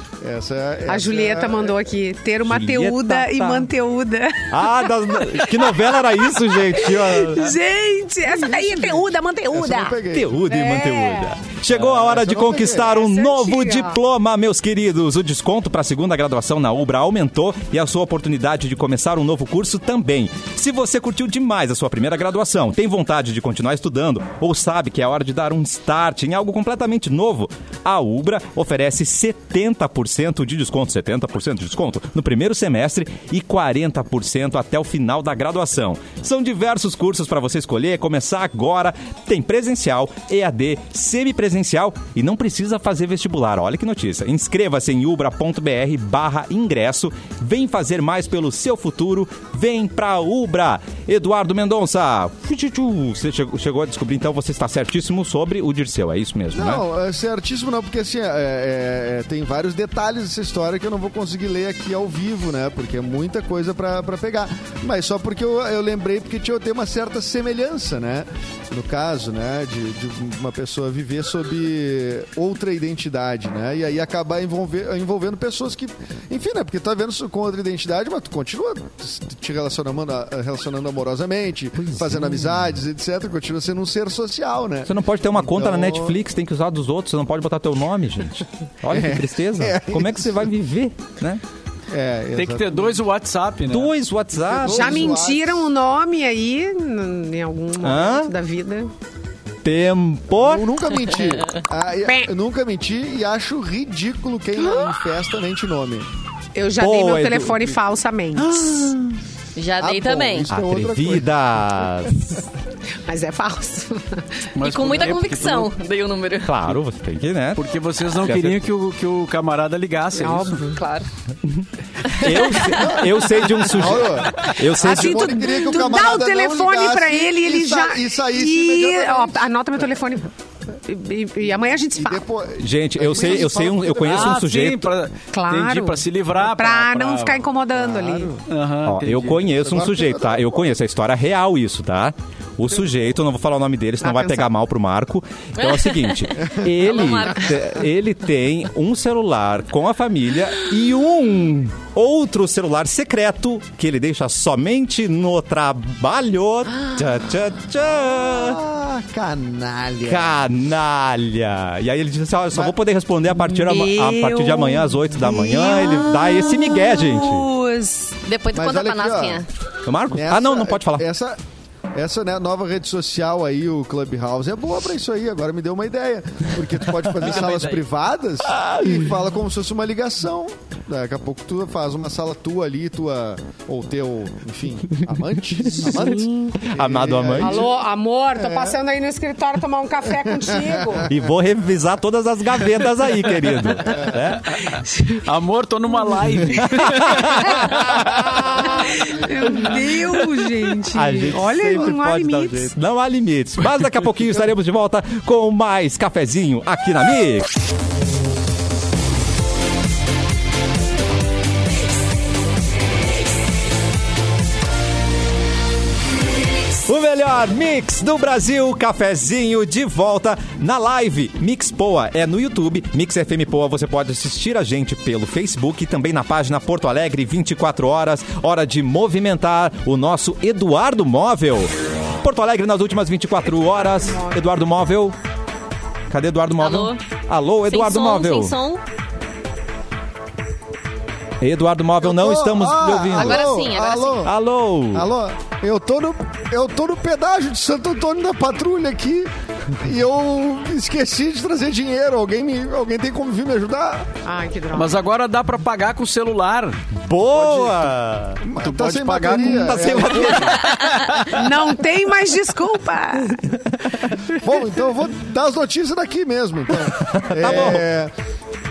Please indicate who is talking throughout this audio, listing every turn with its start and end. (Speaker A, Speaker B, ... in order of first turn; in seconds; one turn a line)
Speaker A: 0.2-1.8
Speaker B: 0.9-11.4
Speaker C: 2.5-3.7
Speaker C: 4.5-7.5
Speaker A: 9.5-10.4
Speaker C: 10.1-56.8
Speaker A: 11.7-13.0
Speaker B: 12.8-14.0
Speaker A: 56.5-86.2
Speaker C: 81.8-82.6
Speaker C: 84.8-91.4
Speaker A: 88.9-90.5
Speaker A: 91.9-93.0
Speaker D: 92.3-93.9
Speaker C: 93.7-95.1
Speaker A: 94.3-95.7
Speaker B: 94.6-98.9
Speaker C: 97.8-98.3
Speaker C: 99.6-100.7
Speaker A: 100.3-106.1
Speaker B: 104.7-104.9
Speaker B: 106.5-108.7
Speaker C: 106.8-107.8
Speaker C: 108.3-109.2
Speaker E: 109.5-110.5
Speaker A: 109.8-111.3
Speaker C: 110.5-112.4
Speaker B: 113.1-114.5
Speaker D: 114.5-115.7
Speaker E: 114.6-116.7
Speaker C: 116.4-117.7
Speaker D: 117.5-120.7
Speaker C: 118.2-118.6
Speaker B: 120.1-120.8
Speaker E: 120.7-121.0
Speaker C: 121.5-125.6
Speaker E: 122.1-123.0
Speaker A: 122.7-129.5
Speaker B: 124.8-130.3
Speaker B: 130.8-132.2
Speaker A: 131.9-134.4
Speaker C: 132.6-134.9
Speaker D: 134.0-137.4
Speaker B: 135.3-138.3
Speaker A: 137.7-138.4
Speaker D: 138.5-139.4
Speaker C: 138.8-158.6
Speaker A: 139.4-140.7
Speaker B: 144.0-144.5
Speaker E: 145.6-147.8
Speaker A: 158.0-160.4
Speaker C: 160.0-167.5
Speaker B: 163.3-168.2
Speaker E: 168.2-169.5
Speaker A: 168.5-169.4
Speaker C: 169.8-171.0
Speaker A: 170.1-171.4
Speaker A: 171.9-187.7
Speaker C: 178.6-179.0
Speaker C: 185.8-187.6
Speaker B: 185.8-186.6
Speaker B: 187.4-191.1
Speaker A: 188.3-188.8
Speaker A: 190.1-191.3
Speaker C: 191.1-194.7
Speaker A: 193.8-194.3
Speaker B: 194.8-195.2
Speaker D: 195.2-198.7
Speaker C: 196.8-197.9
Speaker B: 197.5-202.7
Speaker C: 200.9-207.5
Speaker C: 216.8-235.2
Speaker B: 234.0-234.4
Speaker C: 236.1-238.5
Speaker E: 236.6-237.0
Speaker E: 237.7-238.8
Speaker C: 241.4-243.4
Speaker A: 242.0-244.3
Speaker E: 243.1-244.3
Speaker C: 244.2-245.1
Speaker A: 244.9-254.1
Speaker B: 254.2-255.0
Speaker D: 254.7-256.8
Speaker C: 256.9-258.4
Speaker D: 257.3-257.8
Speaker A: 258.4-260.7
Speaker D: 258.6-260.1
Speaker C: 259.3-260.9
Speaker D: 260.7-261.4
Speaker B: 261.2-263.6
Speaker A: 264.3-268.1
Speaker C: 267.0-267.9